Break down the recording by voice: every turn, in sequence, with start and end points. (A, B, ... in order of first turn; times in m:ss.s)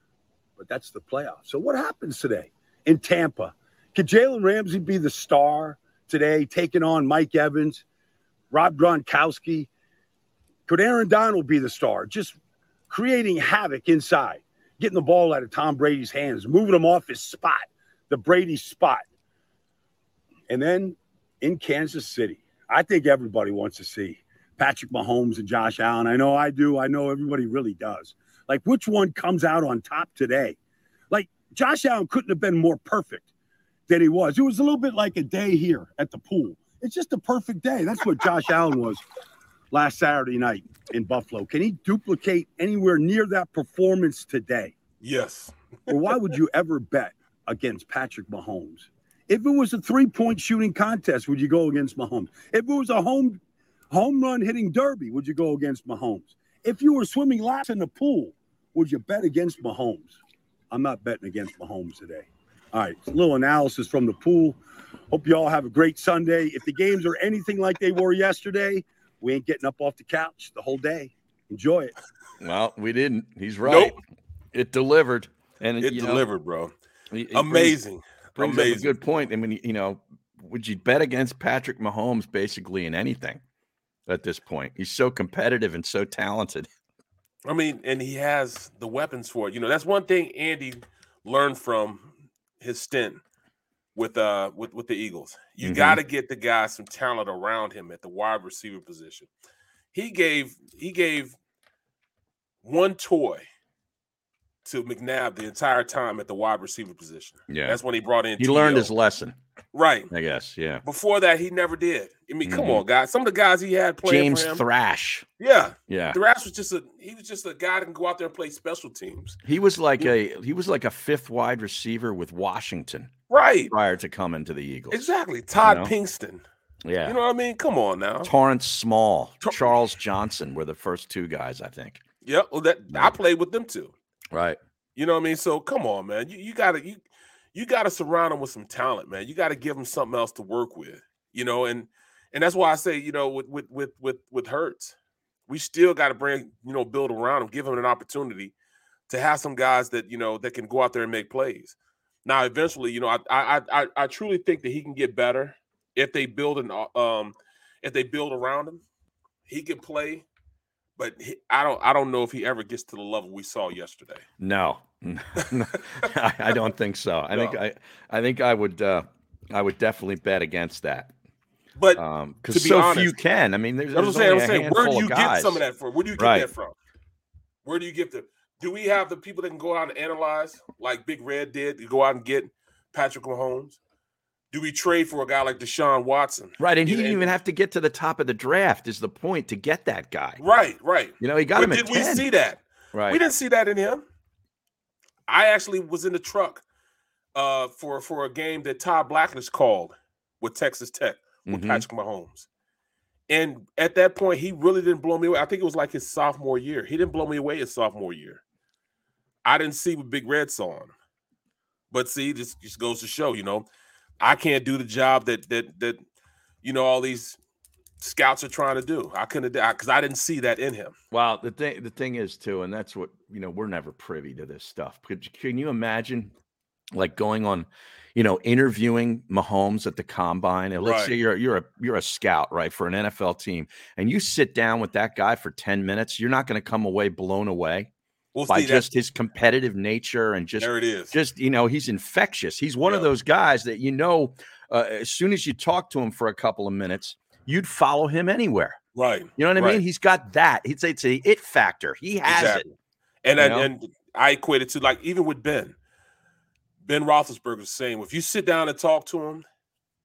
0:00.6-0:07.8 A
0:08.5-0:09.7 A
0:10.7-0:12.4 A
0:12.9-0:19.0 A
0:20.5-0:30.6 A
0:31.1-0:33.2 A
0:33.9-0:39.0 A
0:39.7-0:44.7 A
0:45.0-0:45.5 B
0:45.9-0:53.4 A
0:53.9-1:00.2 A
1:00.7-1:04.6 A
1:05.1-1:11.9 A
1:12.4-1:14.0 C
1:13.6-1:13.9 B
1:14.5-1:16.2 C
1:15.8-1:16.7 B
1:17.1-1:17.8 C
1:17.3-1:18.9 B
1:18.4-1:23.4 C
1:24.1-1:26.7 C
1:27.4-1:33.2 B
1:33.9-1:39.3 B
1:35.6-1:36.0 C
1:39.9-1:41.4 B
1:42.6-1:43.4 B
1:44.6-1:48.9 B
1:47.5-1:47.8 C
1:48.4-1:49.4 C
1:49.7-1:50.1 B
1:50.1-1:50.8 C
1:50.8-1:54.6 B
1:52.4-1:52.8 C
1:54.0-1:55.2 C
1:55.4-1:59.4 B
1:55.9-1:56.2 C
1:59.4-2:03.1 C
2:03.3-2:03.7 B
2:03.7-2:05.1 C
2:04.9-2:06.4 B
2:05.6-2:05.9 C
2:06.8-2:07.2 C
2:07.0-2:08.3 B
2:08.2-2:12.0 C
2:09.4-2:09.7 B
2:12.2-2:13.9 B
2:14.3-2:14.6 C
2:15.0-2:17.0 B
2:17.5-2:24.9 B
2:25.5-2:28.5 B
2:29.1-2:38.8 B
2:39.5-2:40.2 B
2:41.0-2:44.2 B
2:44.4-2:51.1 C
2:47.3-2:47.6 B
2:51.8-2:53.2 B
2:52.0-2:55.6 C
2:53.9-2:56.7 B
2:56.2-2:56.5 C
2:57.6-3:03.8 B
3:04.5-3:07.3 B
3:06.6-3:10.4 C
3:10.4-3:14.0 B
3:11.2-3:12.2 C
3:12.9-3:13.2 C
3:15.3-3:16.6 B
3:17.3-3:22.5 B
3:21.4-3:21.8 C
3:23.3-3:28.4 B
3:29.4-3:30.9 B
3:31.9-3:33.6 B
3:34.2-3:36.0 B
3:36.6-3:37.4 B
3:38.0-3:40.9 B
3:41.1-3:46.3 C
3:46.9-3:57.9 C
3:50.8-3:51.1 B
3:58.3-3:58.9 B
3:58.5-4:08.8 C
4:00.6-4:01.1 B
4:02.8-4:03.1 B
4:08.9-4:09.8 B
4:09.4-4:12.6 C
4:12.2-4:15.7 B
4:13.4-4:13.7 C
4:16.8-4:19.4 B